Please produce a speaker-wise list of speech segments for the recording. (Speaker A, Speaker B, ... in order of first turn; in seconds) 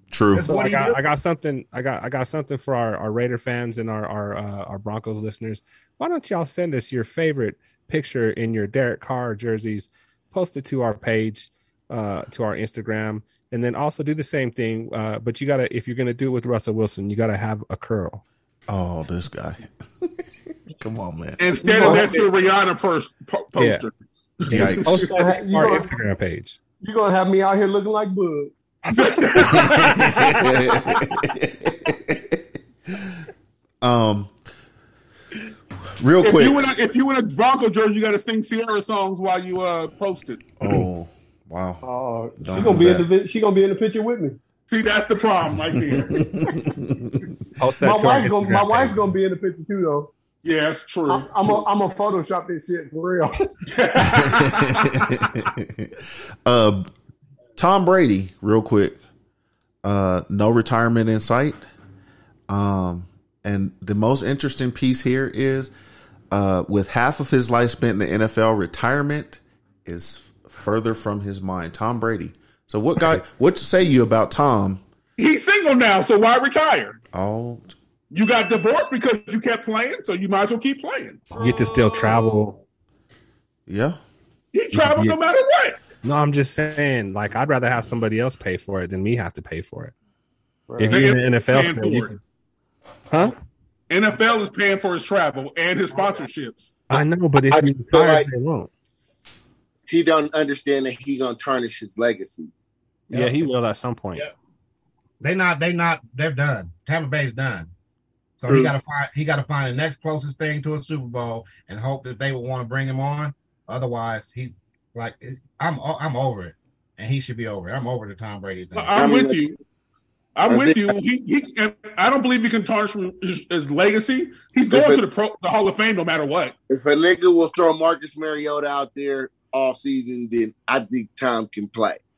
Speaker A: 0.1-0.5, 18.7-20.1, 20.8-22.0, 24.4-25.0, 29.5-32.4, 33.8-34.3, 36.0-36.7, 40.6-41.8, 42.4-43.1, 45.9-47.2, 54.0-55.9, 56.5-56.9, 57.6-59.0, 59.8-61.6, 62.5-65.7, 66.3-74.8, 77.1-77.7, 83.7-84.0
Speaker B: 0.3-1.0, 103.1-103.5, 105.2-107.7, 108.4-119.0
Speaker C: 0.4-18.2, 21.8-22.2, 23.6-23.9, 24.5-26.6, 47.6-49.0, 81.4-82.6, 84.7-85.2, 86.0-89.9, 90.8-92.2, 96.9-98.7, 103.1-104.2
Speaker D: 21.4-23.9, 24.6-24.9, 28.9-30.3, 36.2-40.4, 44.7-46.1, 50.4-51.6, 53.7-55.1, 75.2-77.0, 78.1-81.3, 84.5-85.8, 90.9-92.1, 93.9-96.8, 118.7-119.5, 120.4-126.6
Speaker E: 21.8-22.1, 25.0-25.9, 26.8-28.5, 41.8-44.4, 47.8-50.1, 51.1-53.5, 90.7-91.1
Speaker F: 97.0-98.3, 99.9-102.5, 108.5-108.7, 119.0-119.5, 120.5-120.9, 124.7-125.0, 126.7-132.0